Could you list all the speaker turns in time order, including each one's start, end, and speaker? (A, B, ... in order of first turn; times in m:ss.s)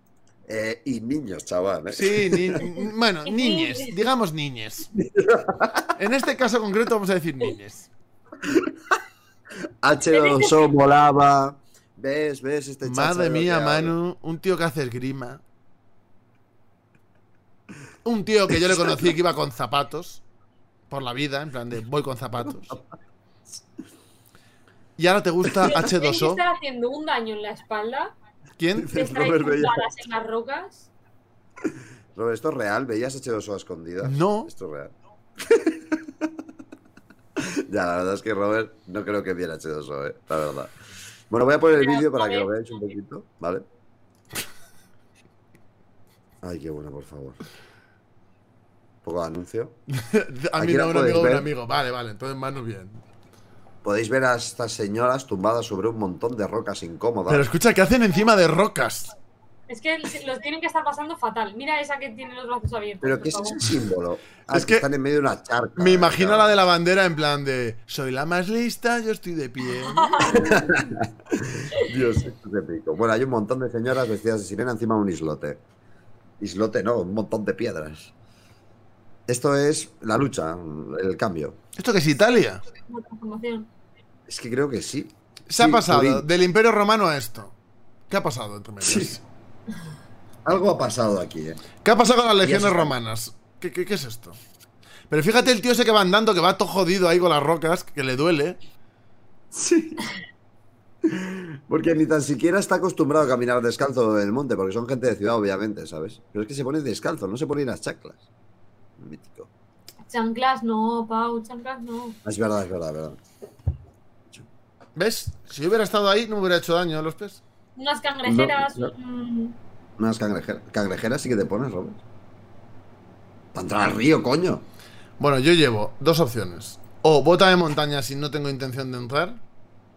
0:00.4-0:02.6 A
0:01.9-0:04.9 B
0:02.6-0:03.9 C
0:05.0-0:05.9 A
0:06.0-0:07.9 B
0:08.4-0:08.7 A
0:09.8-0:13.9 A
0:10.1-0:10.7 C
0:12.8-0:15.4 B
0:18.0-0:20.2 B
0:18.7-0:19.0 A
0:20.9-0:22.8 B
0:22.5-0:22.8 A
0:25.0-0:26.4 B
0:25.6-0:28.1 C
0:28.6-0:28.9 B
0:28.8-0:29.8 A
0:28.9-0:30.9 C
0:32.1-0:34.9 A
0:34.0-0:34.5 B
0:35.4-0:36.0 A
0:37.4-0:40.7 A
0:41.3-0:43.6 A
0:41.8-0:42.5 C
0:46.4-0:47.4 A
0:49.0-0:49.8 A
0:49.9-0:53.0 B
0:50.6-0:51.5 A
0:53.8-0:57.4 A
0:57.3-0:59.1 B
0:59.7-1:03.7 C
1:03.0-1:06.5 A
1:04.5-1:04.8 B
1:05.8-1:10.3 B
1:09.8-1:10.6 C
1:10.2-1:15.6 A
1:16.4-1:18.1 A
1:19.3-1:21.6 A
1:21.8-1:22.6 B
1:22.9-1:23.7 C
1:24.3-1:26.2 A
1:25.5-1:27.5 B
1:28.1-1:29.2 B
1:28.8-1:29.2 A
1:30.4-1:31.6 A
1:31.8-1:34.4 B
1:32.4-1:32.9 A
1:35.1-1:38.6 B
1:39.5-1:40.0 A
1:41.0-1:48.2 A
1:49.0-1:49.5 A
1:50.1-1:52.2 C
1:52.2-1:53.2 A
1:55.0-1:57.4 B
1:57.8-1:59.6 C
1:58.2-1:58.9 A
2:00.0-2:02.0 A
2:03.5-2:04.6 A
2:05.2-2:09.4 B